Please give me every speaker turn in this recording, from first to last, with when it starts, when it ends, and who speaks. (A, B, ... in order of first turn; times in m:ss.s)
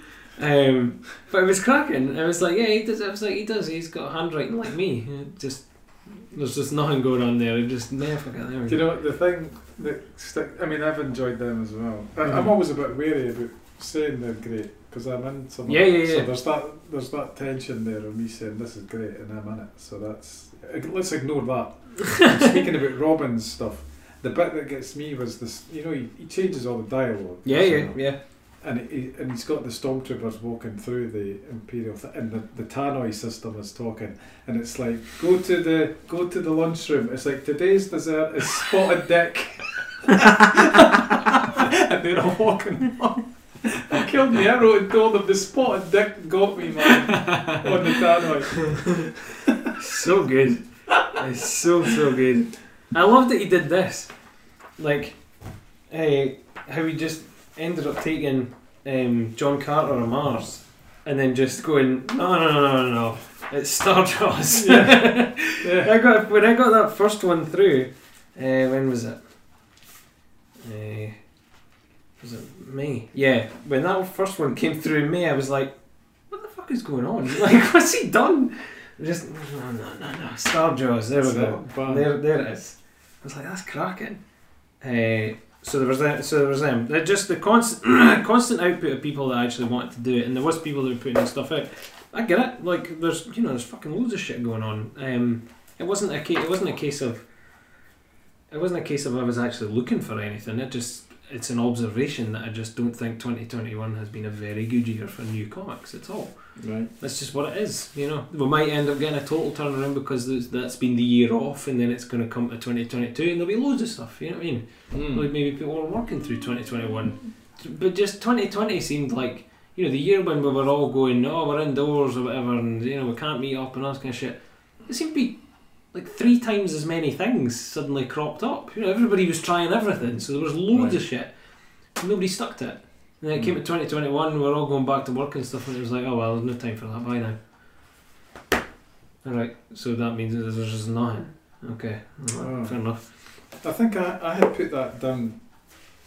0:00.4-0:08.8 A
0:08.7-0:49.2 B
0:15.7-0:16.3 A
0:27.4-0:28.2 A
0:49.8-1:09.2 A
1:04.5-1:05.9 B
1:10.6-1:11.2 A
1:12.2-1:15.8 A
1:16.3-1:24.2 A
1:21.2-1:22.1 B
1:24.8-1:37.2 A
1:38.5-2:17.4 A
1:46.6-1:46.9 B
1:54.9-1:55.3 B
2:10.7-2:11.0 B
2:19.2-2:23.0 A
2:22.3-2:25.9 B